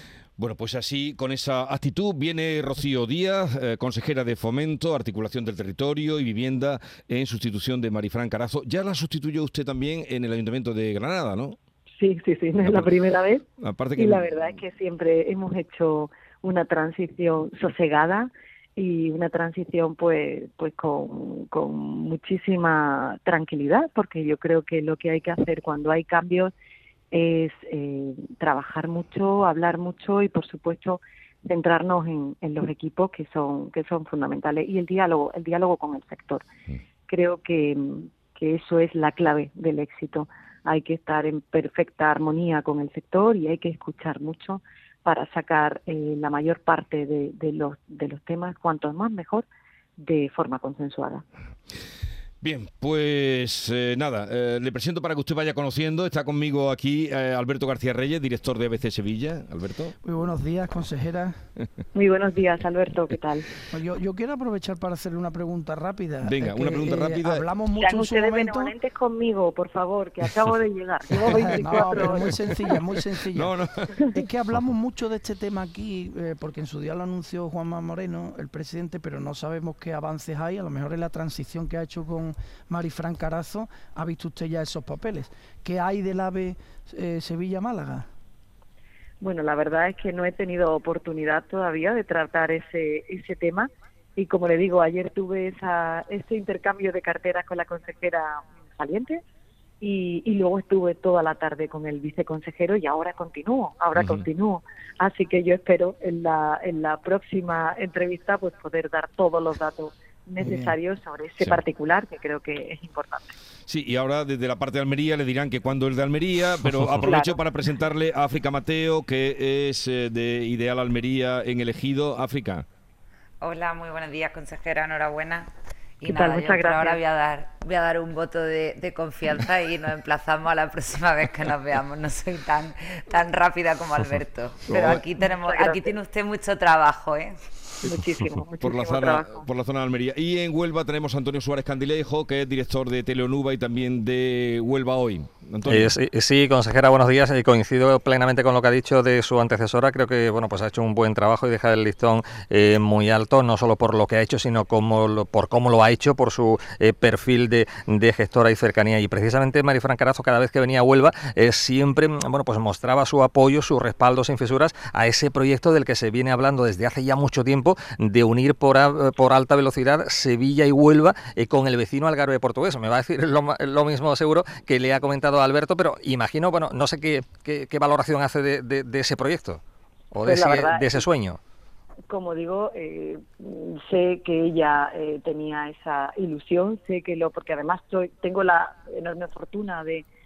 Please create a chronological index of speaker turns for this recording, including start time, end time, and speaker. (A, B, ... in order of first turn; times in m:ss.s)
0:00.4-0:11.6 A
0:12.0-0:13.4 B
0:12.5-0:12.9 A
0:13.6-0:14.5 A
0:14.0-0:26.5 B
0:27.1-0:36.4 B
0:37.1-0:49.4 B
0:50.0-0:51.2 B
0:52.4-1:00.0 A
1:00.0-1:01.4 C
1:01.9-1:03.5 B
1:03.7-1:08.7 C
1:06.2-1:07.5 A
1:07.8-1:12.5 B
1:11.2-1:13.5 C
1:11.5-1:12.0 A
1:13.3-1:14.0 A
1:14.1-1:28.1 C
1:29.2-1:39.2 B
1:39.8-1:53.3 B
1:50.4-1:50.7 C
1:53.7-2:02.7 A
1:57.0-1:57.4 B
2:03.4-2:05.5 D
2:06.0-2:17.4 D
2:06.1-2:07.0 B
2:14.7-2:15.0 A
2:14.7-2:15.9 B
2:17.8-2:19.4 B
2:18.6-2:26.0 A
2:25.7-2:59.6 E
3:00.1-3:01.4 E
3:00.2-3:01.1 B
3:02.1-3:10.0 B